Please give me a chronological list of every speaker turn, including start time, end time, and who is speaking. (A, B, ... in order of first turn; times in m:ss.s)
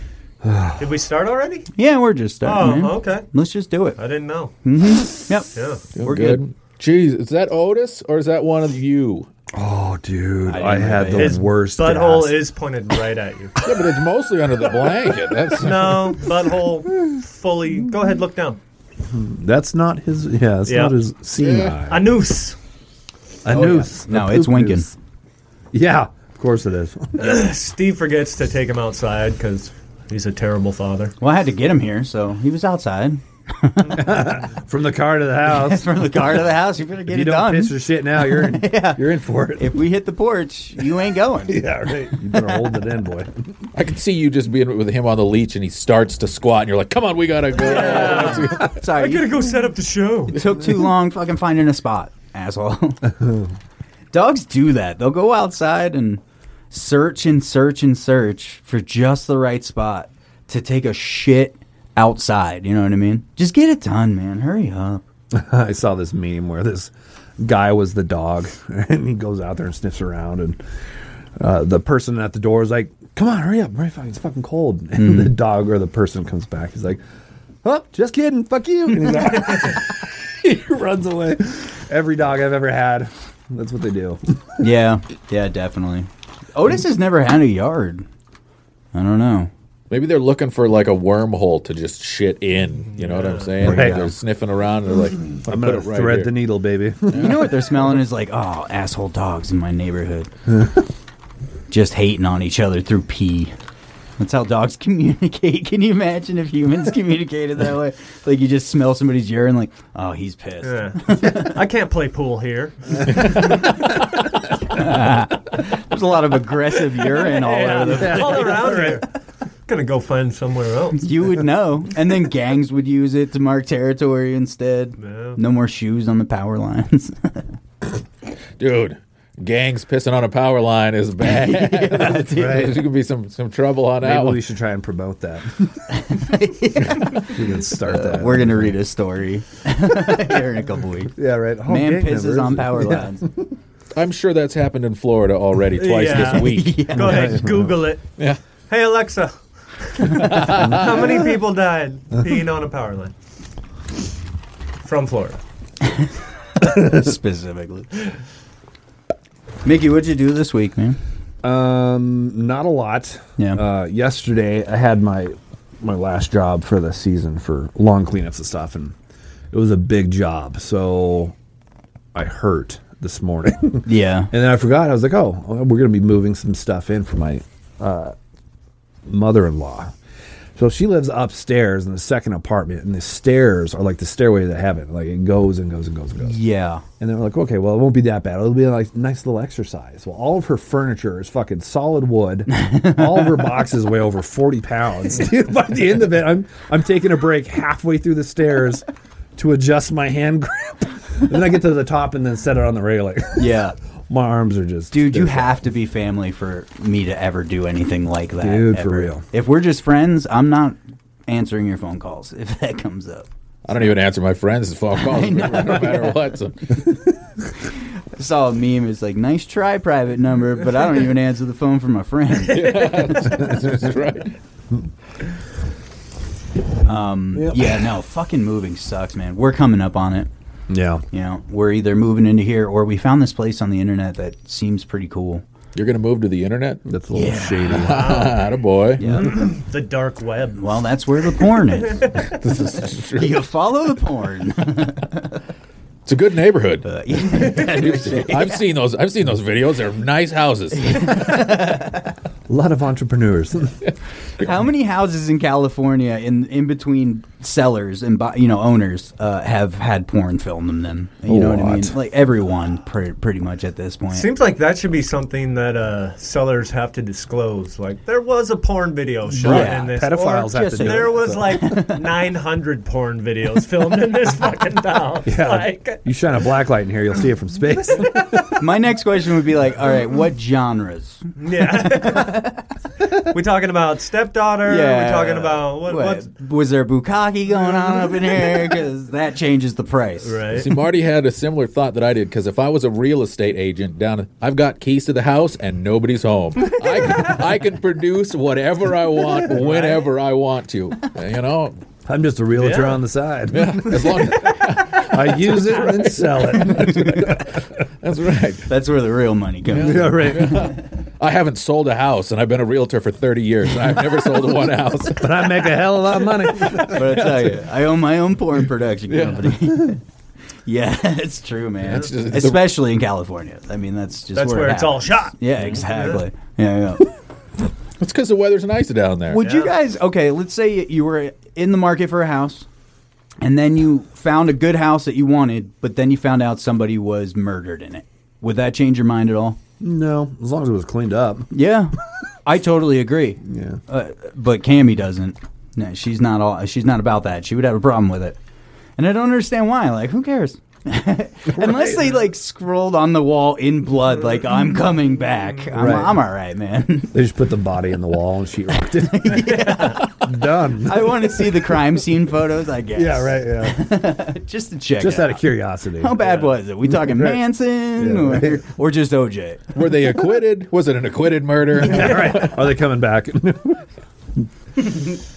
0:00.4-0:00.9 A
0:00.8-0:01.7 B
0:01.8-0:04.0 C
0:02.4-0:03.3 B
0:04.0-0:04.5 B
0:04.6-0:06.4 C
0:05.5-0:05.8 B
0:06.0-0:09.3 D
0:09.5-0:12.4 A
0:10.5-0:11.4 C
0:11.1-0:13.6 B
0:13.6-0:16.2 D
0:15.6-0:18.6 B
0:19.1-0:22.1 A
0:20.7-0:21.0 B
0:21.4-0:21.8 D
0:21.9-0:22.6 B
0:23.4-0:24.9 A
0:23.5-0:24.9 C
0:25.7-0:27.5 A
0:27.2-0:31.2 B
0:31.2-0:34.1 C
0:34.0-0:36.1 A
0:35.5-0:41.7 C
0:37.1-0:39.8 A
0:41.5-0:43.3 A
0:43.7-0:48.8 D
0:47.6-0:50.4 B
0:47.8-0:49.4 C
0:50.3-0:53.1 C
0:53.2-0:53.5 A
0:54.1-1:05.0 C
1:05.3-1:10.6 A
1:11.4-1:17.0 A
1:15.0-1:15.4 C
1:17.6-1:24.2 A
1:24.6-1:28.1 C
1:28.9-1:29.5 C
1:29.9-1:36.4 D
1:32.9-1:33.5 B
1:33.6-1:34.1 A
1:33.7-1:34.0 C
1:35.4-1:37.4 A
1:37.1-1:40.3 C
1:41.7-1:43.5 C
1:44.2-1:51.6 C
1:50.6-1:53.4 B
1:54.7-1:58.7 C
1:57.2-1:59.0 B
1:57.9-1:59.0 A
1:59.7-2:01.1 B
2:01.0-2:07.4 C
2:05.0-2:05.4 B
2:08.6-2:14.4 D
2:11.2-2:12.8 C
2:12.3-2:12.7 A
2:14.0-2:15.9 A
2:16.1-2:23.2 C
2:17.2-2:18.8 A
2:21.2-2:23.5 A
2:24.0-2:26.8 D
2:25.8-2:28.0 B
2:26.1-2:27.4 C
2:27.0-2:27.8 A
2:28.7-2:33.1 B
2:30.1-2:31.1 D
2:34.8-2:35.4 B
2:36.6-2:38.0 C
2:39.6-2:41.0 C
2:41.4-2:49.0 A
2:49.5-2:51.4 A
2:52.1-2:58.2 A
2:53.8-2:54.3 C
2:59.1-2:59.9 A
3:00.6-3:06.4 A
3:06.2-3:06.8 C
3:07.0-3:18.8 A
3:12.5-3:13.4 C
3:19.4-3:23.6 A
3:23.4-3:23.8 C
3:24.1-3:25.6 A
3:24.9-3:33.3 C
3:28.4-3:29.2 A
3:33.7-3:36.8 D
3:35.0-3:36.1 C
3:37.7-3:43.2 C
3:42.5-3:44.4 D
3:42.5-3:43.4 B
3:46.8-3:50.3 C
3:47.3-3:47.8 A
3:50.7-3:51.0 A
3:51.1-3:55.4 C
3:55.7-3:56.8 D
3:56.8-3:58.1 A
3:57.1-3:57.9 C
3:57.7-3:59.0 D
3:57.9-3:58.5 B
3:59.0-3:59.5 C
3:59.1-4:00.6 B
4:00.6-4:02.1 C
4:01.6-4:02.1 B
4:02.1-4:03.5 D
4:03.2-4:05.4 C
4:06.1-4:06.9 D
4:06.8-4:08.6 C
4:07.4-4:11.2 D
4:10.8-4:12.0 C
4:12.5-4:13.8 A
4:14.4-4:24.3 C
4:21.3-4:22.0 A
4:24.1-4:36.0 B
4:29.3-4:31.6 A
4:29.4-4:32.1 C
4:35.2-4:38.4 A
4:38.6-4:42.6 C
4:41.4-4:42.4 B
4:43.2-4:46.3 B
4:44.6-4:50.4 C
4:48.0-4:48.4 B
4:50.2-4:50.7 B
4:50.5-5:01.8 D
4:59.6-5:00.1 B
5:02.1-5:07.6 A
5:02.6-5:03.0 B
5:03.5-5:06.0 D
5:06.5-5:07.4 C
5:08.0-5:08.7 D
5:08.7-5:10.6 C
5:09.7-5:15.7 D
5:09.8-5:10.7 A
5:15.2-5:17.6 A
5:16.7-5:20.0 C
5:19.1-5:19.6 D
5:20.7-5:27.1 C
5:21.8-5:22.7 D
5:24.4-5:26.2 B
5:28.0-5:29.4 D
5:29.3-5:32.7 C
5:29.4-5:29.7 B
5:33.4-5:39.6 C
5:39.8-5:41.5 A
5:41.5-5:41.9 C
5:42.4-5:48.4 C
5:43.4-5:43.8 A
5:49.0-5:57.2 C
5:51.5-5:52.1 A
5:55.7-5:56.2 A
5:57.1-5:59.5 A
5:58.9-6:00.2 C
5:59.4-6:00.0 B
6:00.0-6:01.4 A
6:00.7-6:09.7 C
6:02.9-6:03.9 A
6:05.0-6:06.2 A
6:06.2-6:06.5 B
6:06.8-6:07.4 A
6:08.0-6:08.6 A
6:09.7-6:12.7 D
6:11.8-6:13.8 A
6:14.8-6:15.2 C